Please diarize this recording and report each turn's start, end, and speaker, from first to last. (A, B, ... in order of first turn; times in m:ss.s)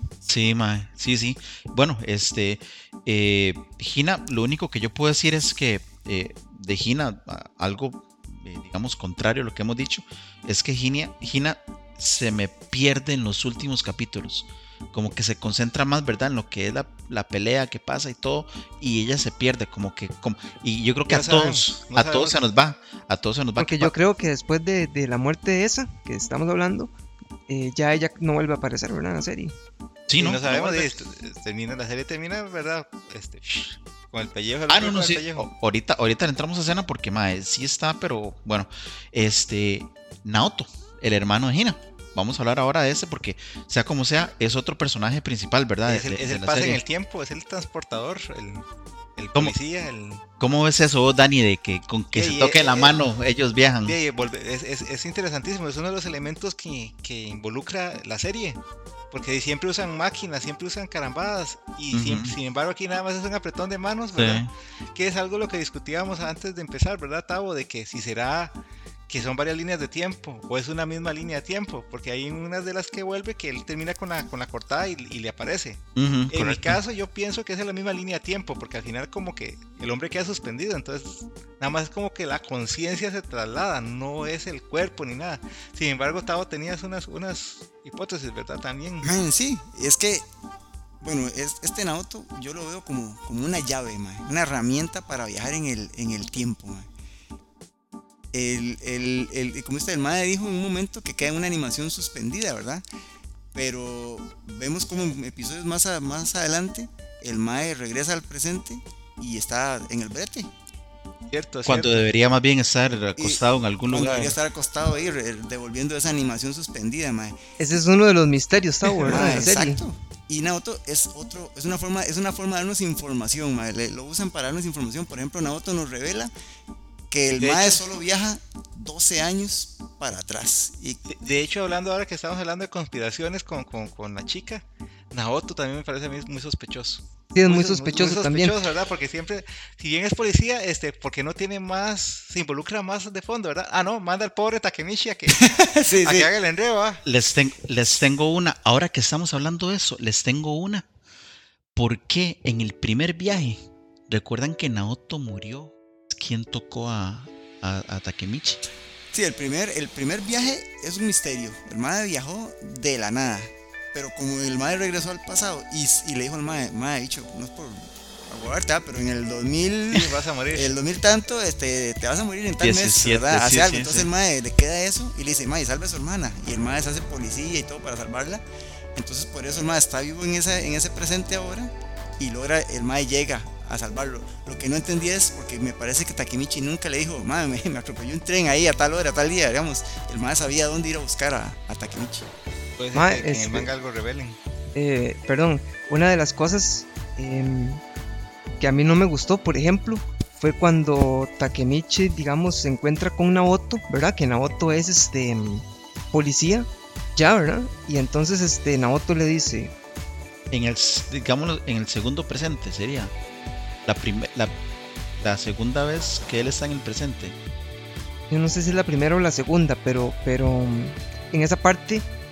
0:00.2-0:23.9 A
0:21.1-0:22.4 B
0:23.6-0:26.9 C
0:27.5-0:29.5 C
0:30.1-0:30.9 A
0:30.2-0:35.5 B
0:34.7-0:46.8 A
0:45.9-0:48.6 B
0:49.2-0:50.2 B
0:50.4-0:54.0 A
0:52.1-0:53.0 B
0:53.9-0:58.6 B
0:59.1-1:08.6 B
1:01.9-1:02.3 A
1:04.1-1:04.5 A
1:09.1-1:15.8 B
1:16.0-1:16.8 A
1:16.3-1:29.1 B
1:29.0-1:30.3 D
1:31.0-1:36.9 D
1:38.3-1:42.8 D
1:43.5-1:50.5 D
1:51.3-1:51.9 B
1:51.6-1:54.4 A
1:53.2-1:57.4 D
1:57.6-1:59.8 C
1:59.0-2:06.3 D
2:07.1-2:11.1 D
2:07.4-2:07.8 B
2:11.1-2:25.5 B
2:17.3-2:18.6 C
2:25.4-2:26.3 D
2:26.0-2:27.0 B
2:27.0-2:30.9 A
2:31.8-2:38.6 A
2:39.1-2:58.4 D
2:49.9-2:50.8 B
2:52.6-2:54.1 A
2:59.0-3:12.3 D
3:12.8-3:14.4 B
3:12.9-3:13.7 C
3:14.8-3:17.8 C
3:18.6-3:29.7 C
3:30.5-3:33.1 A
3:33.9-3:34.6 A
3:35.2-3:37.4 A
3:38.3-3:42.0 C